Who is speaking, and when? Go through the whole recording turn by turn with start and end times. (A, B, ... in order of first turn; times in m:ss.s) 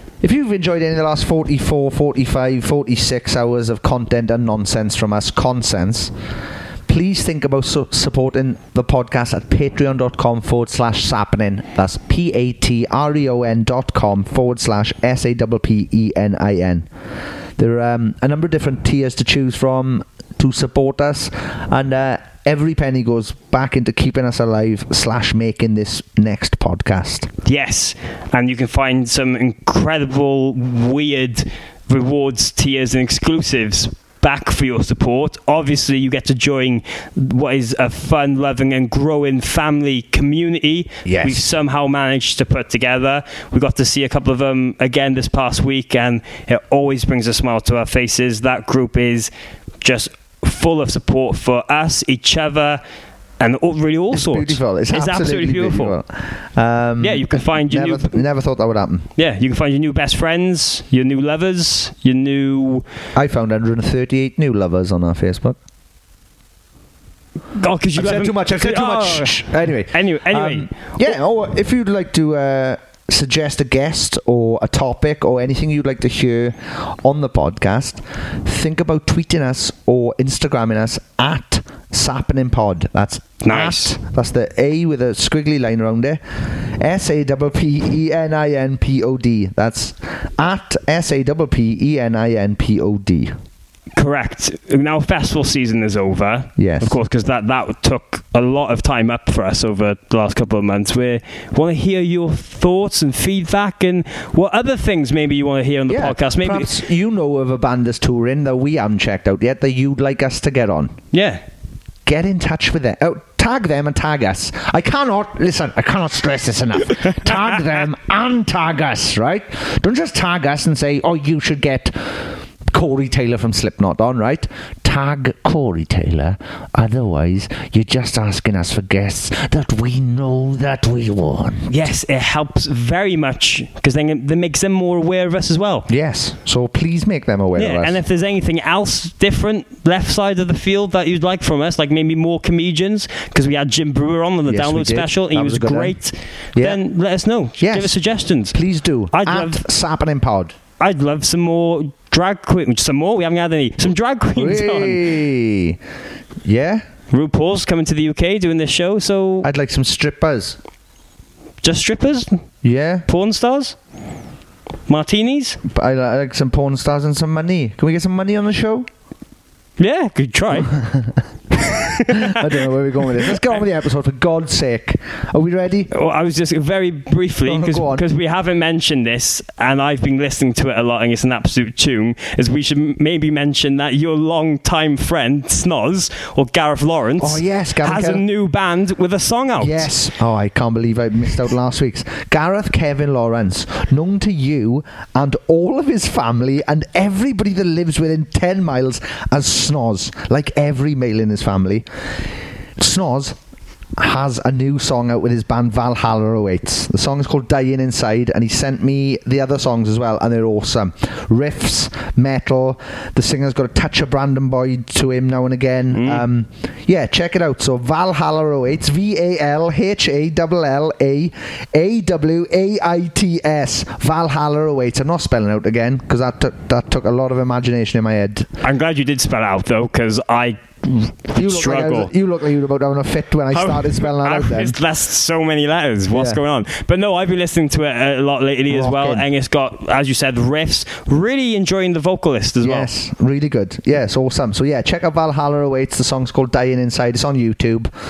0:00.2-0:06.1 A
0:06.9-0:16.9 A
0:17.6-0:27.3 A
0:27.4-0:49.3 B
0:41.0-0:41.4 A
0:49.8-0:52.8 B
0:53.4-0:56.0 B
0:54.1-0:59.1 A
0:57.0-0:58.2 B
0:59.2-1:02.8 B
1:03.2-1:05.6 A
1:07.6-1:10.7 B
1:08.0-1:33.3 A
1:23.4-1:24.0 B
1:34.0-1:46.7 B
1:36.6-1:37.0 A
1:45.9-1:51.0 A
1:51.1-1:51.4 B
1:52.1-2:11.7 A
2:11.7-2:15.9 B
2:15.9-2:18.0 A
2:17.6-2:28.6 B
2:24.5-2:26.0 A
2:26.6-2:26.8 A
2:27.6-2:30.6 A
2:29.1-2:29.6 B
2:30.8-2:35.0 B
2:34.4-2:35.8 A
2:36.4-2:36.8 A
2:37.1-2:39.5 B
2:39.4-2:40.6 A
2:41.6-2:42.4 B
2:42.6-2:43.1 A
2:43.1-2:43.8 B
2:44.9-2:45.6 B
2:45.6-2:48.9 A
2:49.8-2:50.8 B
2:50.6-2:51.2 A
2:51.9-2:52.4 B
2:52.0-2:55.9 A
2:55.9-3:09.9 B
2:57.4-2:58.0 A
3:07.2-3:08.2 A
3:09.6-3:21.9 A
3:22.8-3:23.4 A
3:24.0-3:48.5 A
3:35.9-3:36.2 B
3:48.6-3:52.1 B
3:51.4-3:54.8 A
3:53.5-4:02.9 B
3:56.1-3:56.4 A
3:58.7-3:59.3 A
4:02.6-4:07.9 A